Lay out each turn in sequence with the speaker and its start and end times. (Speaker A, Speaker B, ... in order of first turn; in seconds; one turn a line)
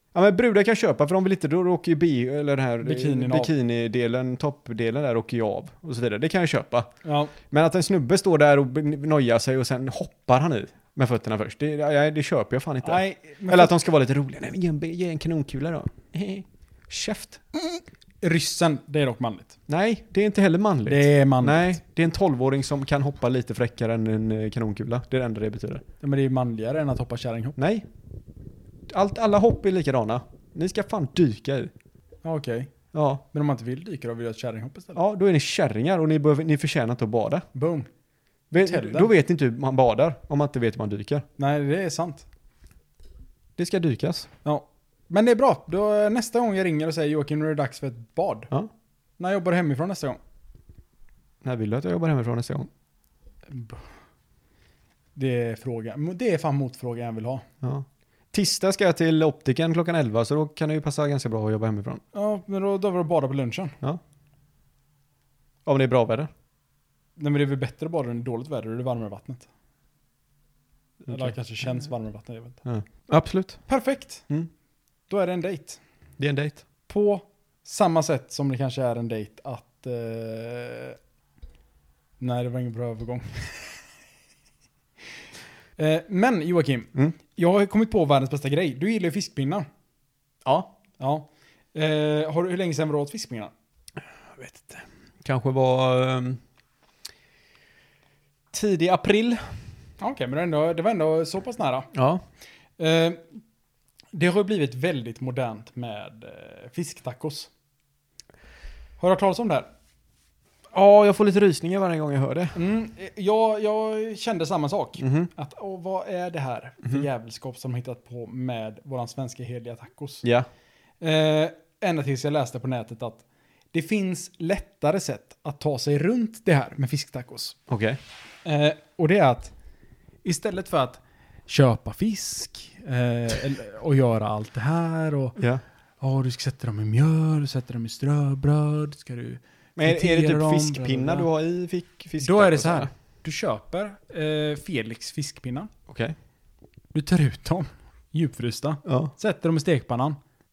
Speaker A: 0.1-6.9
Speaker B: 2.8-3.5
Speaker B: 7.0-7.3
Speaker A: 7.5-17.4
Speaker B: 12.8-13.7
Speaker B: 17.6-19.5
Speaker A: 19.7-25.8
Speaker B: 20.9-21.8
Speaker B: 26.0-27.6
Speaker A: 27.6-27.9
Speaker A: 28.9-31.7
Speaker B: 32.2-32.7
Speaker A: 32.9-33.2
Speaker B: 33.3-35.0
Speaker A: 35.0-37.5
Speaker B: 37.5-37.9
Speaker A: 38.5-41.2
Speaker B: 38.6-39.1
Speaker B: 41.4-42.2
Speaker A: 43.6-44.3
Speaker B: 44.4-48.5
Speaker B: 49.2-50.2
Speaker A: 51.4-52.7
Speaker B: 53.5-53.8
Speaker B: 55.1-57.4
Speaker A: 57.6-62.0
Speaker B: 62.1-63.7
Speaker A: 65.7-66.3
Speaker B: 67.2-69.5
Speaker A: 71.0-71.3
Speaker B: 71.1-72.6
Speaker A: 72.6-73.6
Speaker B: 73.7-74.3
Speaker B: 75.1-75.8
Speaker A: 76.2-76.6
Speaker B: 76.9-81.0
Speaker B: 82.2-83.7
Speaker B: 85.8-89.6
Speaker A: 90.4-90.7
Speaker B: 91.0-93.5
Speaker A: 94.4-96.4
Speaker A: 98.5-99.6
Speaker B: 100.0-101.9
Speaker A: 101.9-102.2
Speaker B: 102.8-103.2
Speaker B: 104.1-107.5
Speaker B: 109.0-109.7
Speaker A: 110.7-112.6
Speaker B: 112.5-120.2
Speaker A: 115.0-115.3
Speaker A: 120.2-120.5
Speaker B: 121.0-127.6
Speaker A: 127.7-128.0
Speaker B: 128.4-129.5
Speaker B: 130.2-135.4
Speaker A: 135.4-135.6
Speaker B: 136.0-141.3
Speaker A: 139.8-142.9
Speaker B: 142.2-145.7
Speaker A: 145.9-146.2
Speaker B: 146.9-150.2
Speaker A: 148.8-149.1